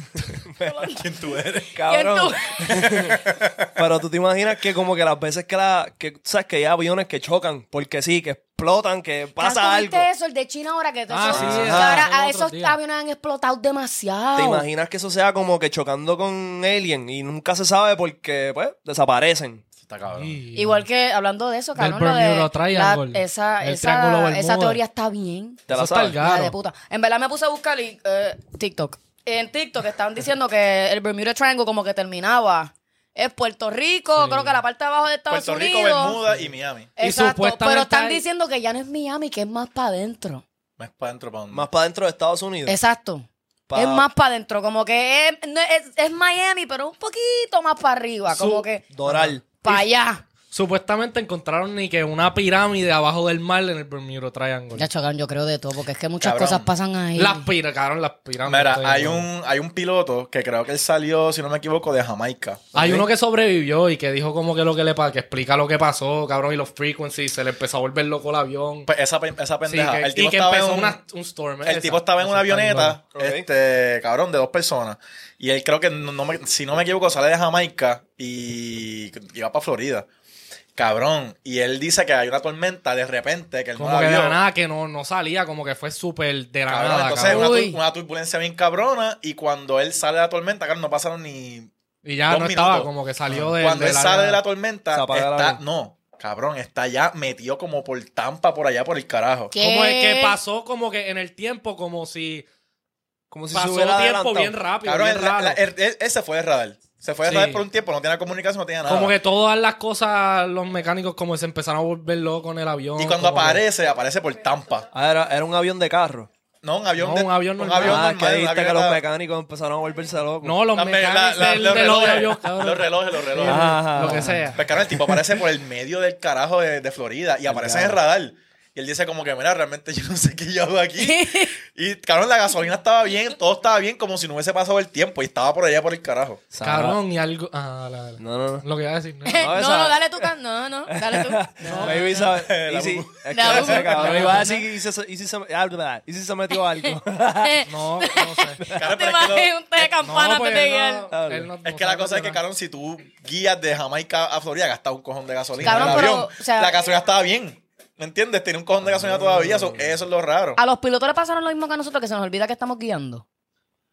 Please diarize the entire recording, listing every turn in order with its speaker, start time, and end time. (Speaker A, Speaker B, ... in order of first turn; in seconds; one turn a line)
Speaker A: 0.2-0.8
Speaker B: 0.6-1.0
Speaker C: 0.9-1.8
Speaker A: 1.7-3.1
Speaker B: 1.9-2.7
Speaker C: 2.6-3.7
Speaker A: 3.7-10.1
Speaker B: 9.4-14.7
Speaker D: 11.1-12.8
Speaker A: 11.3-12.1
Speaker C: 11.3-11.7
Speaker A: 14.3-19.6
Speaker C: 19.8-20.4
Speaker D: 20.1-20.9
Speaker B: 20.5-25.6
Speaker D: 21.8-24.8
Speaker A: 25.7-26.2
Speaker D: 25.7-26.5
Speaker B: 26.2-36.2
Speaker D: 34.2-34.6
Speaker C: 35.3-36.9
Speaker B: 37.0-40.4
Speaker D: 37.0-38.2
Speaker C: 40.8-41.7
Speaker A: 41.5-42.8
Speaker B: 42.6-48.8
Speaker A: 43.7-44.1
Speaker A: 48.3-49.8
Speaker D: 49.0-49.3
Speaker B: 49.6-50.2
Speaker D: 50.5-54.9
Speaker B: 54.8-57.5
Speaker C: 56.2-56.7
Speaker D: 57.1-59.2
Speaker C: 58.4-63.0
Speaker D: 62.7-68.9
Speaker C: 68.9-71.0
Speaker D: 69.7-73.0
Speaker C: 71.6-80.1
Speaker A: 73.1-73.4
Speaker C: 80.8-84.4
Speaker D: 83.8-87.5
Speaker C: 86.7-91.7
Speaker B: 87.2-87.8
Speaker D: 92.0-94.4
Speaker C: 92.3-99.5
Speaker A: 94.9-95.6
Speaker B: 99.5-100.4
Speaker D: 99.5-102.4
Speaker A: 103.3-104.5
Speaker D: 103.5-105.6
Speaker C: 104.8-109.1
Speaker D: 107.2-107.6
Speaker D: 108.8-113.6
Speaker C: 113.0-114.9
Speaker A: 114.9-116.3
Speaker C: 116.6-119.0
Speaker D: 117.0-118.1
Speaker A: 117.7-120.6
Speaker D: 120.4-124.6
Speaker C: 120.7-123.8
Speaker A: 123.4-124.8
Speaker C: 124.5-136.4
Speaker A: 127.5-128.0
Speaker B: 131.0-131.5
Speaker A: 136.5-137.0
Speaker D: 136.6-139.5
Speaker A: 138.2-138.7
Speaker B: 139.2-142.3
Speaker A: 139.3-140.0
Speaker A: 140.9-147.7
Speaker D: 141.6-142.3
Speaker C: 142.3-143.9
Speaker B: 143.3-144.4
Speaker D: 143.9-144.6
Speaker B: 147.4-151.1
Speaker D: 147.7-148.6
Speaker A: 148.6-148.9
Speaker C: 148.7-149.5
Speaker D: 149.8-152.4
Speaker A: 151.1-151.5
Speaker C: 151.6-160.6
Speaker A: 155.6-156.1
Speaker B: 155.6-156.8
Speaker D: 155.6-155.9
Speaker A: 158.8-160.0
Speaker B: 160.6-163.2